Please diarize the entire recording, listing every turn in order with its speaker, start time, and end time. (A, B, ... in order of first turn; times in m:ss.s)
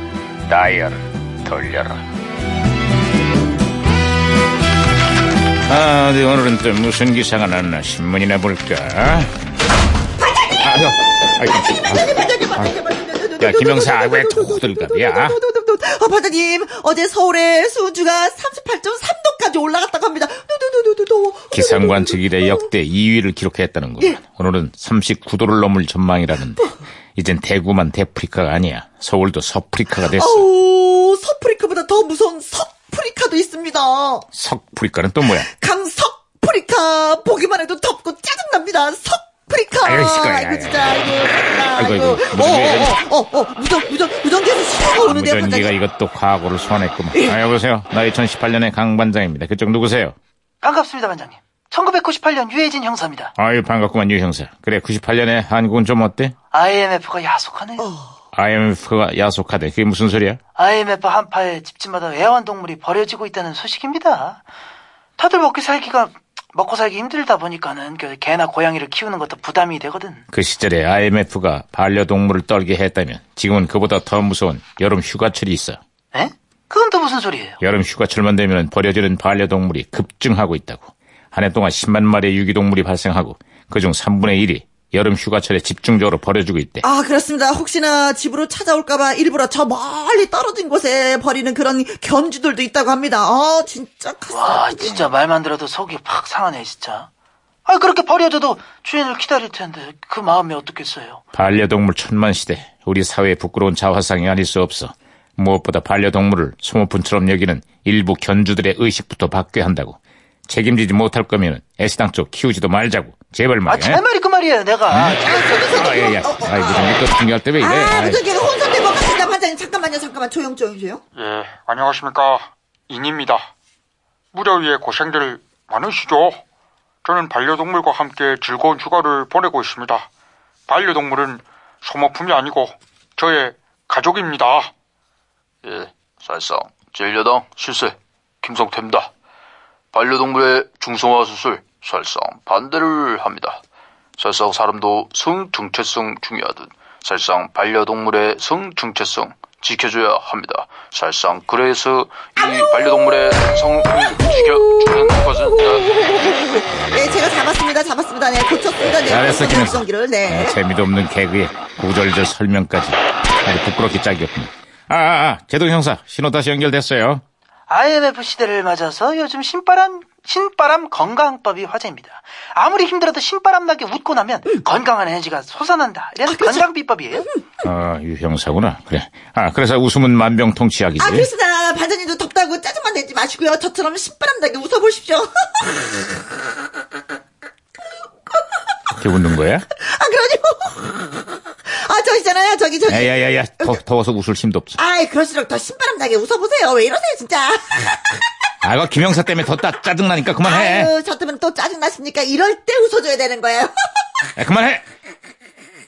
0:00.5-0:02.0 A
0:05.7-0:09.3 A
0:10.6-0:12.7 A
0:11.6-0:22.7 B
0:13.4-0:15.4 A
0:21.5-0:30.5 A
0:30.1-0:34.3 B
0:34.3-0:35.5 A
0:35.4-0:45.7 B
0:39.8-0:41.2 A
0:41.7-0:43.0 A
0:45.0-0:50.2 A
0:50.6-0:53.3 C
0:53.4-0:56.4 A
0:56.5-0:57.9 C
0:57.8-0:58.2 B
0:58.3-1:00.4 A
1:00.6-1:04.4 C
1:05.2-1:10.2 C
1:10.3-1:15.8 A
1:16.1-1:17.6 C
1:17.6-1:26.8 A
1:26.8-1:35.1 B
1:34.3-1:37.1 C
1:37.7-1:41.2 C
1:41.3-1:54.0 A
1:53.7-1:55.5 C
1:54.9-1:58.2 A
1:55.2-1:57.0 B
1:57.6-2:01.0 B
2:01.2-2:03.5 D
2:04.3-2:06.4 D
2:07.0-2:10.1 D
2:10.7-2:14.7 D
2:15.6-2:19.1 E
2:19.9-2:23.6 E
2:24.2-2:36.1 E
2:35.1-2:40.6 B
2:36.7-2:37.4 A
2:38.8-2:47.2 A
2:47.7-2:57.3 C
2:56.3-2:56.6 B
2:57.6-3:01.3 A
3:01.0-3:05.9 B
3:09.0-3:09.7 A
3:09.8-3:13.1 B
3:12.9-3:14.8 A
3:14.8-3:18.2 B
3:18.6-3:20.9 A
3:20.4-3:23.7 B
3:24.4-3:24.8 A